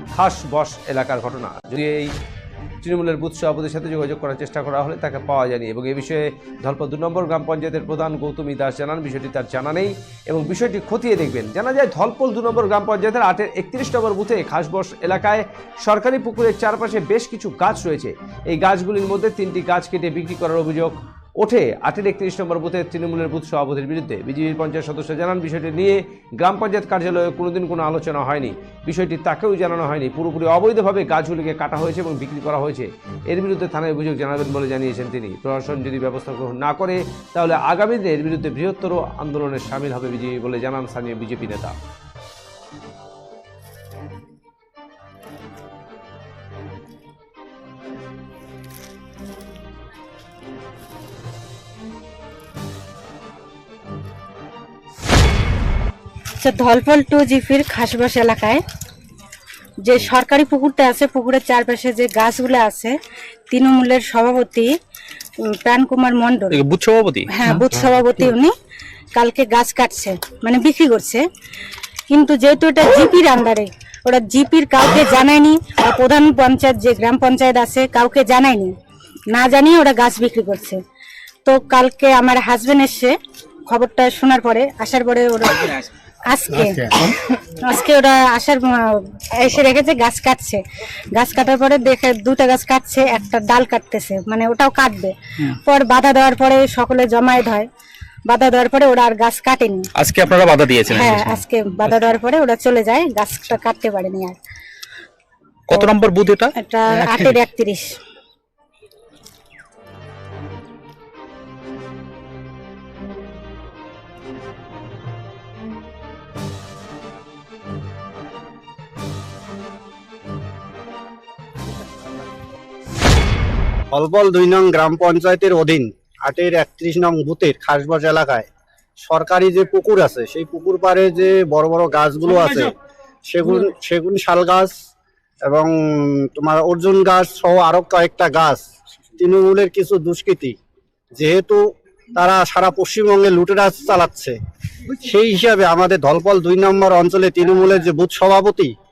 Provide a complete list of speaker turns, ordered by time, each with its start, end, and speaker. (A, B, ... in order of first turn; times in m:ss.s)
0:00.1-0:02.1 A
0:02.8-0:41.8 A
0:56.4-0:58.6 B
0:59.8-1:03.0 B
1:03.5-1:04.7 B
1:05.5-1:06.6 B
1:06.5-1:07.3 C
1:07.3-1:08.5 B
1:09.2-1:11.2 B
1:12.1-1:18.7 B
1:19.3-1:20.8 B
1:21.4-1:23.2 B
1:23.7-1:25.7 B
1:26.3-1:27.0 B
1:27.6-1:30.6 B
1:31.2-1:37.7 B
1:38.3-1:39.9 B
1:40.0-1:41.3 C
1:40.9-1:44.4 B
1:45.7-1:46.5 C
1:46.6-1:47.9 B
1:47.1-1:47.4 C
2:03.9-2:08.5 D
2:09.0-2:12.7 D
2:13.3-2:14.7 D
2:15.4-2:18.6 D
2:19.2-2:20.6 D
2:21.2-2:21.6 D
2:22.2-2:24.4 D
2:24.9-2:28.7 D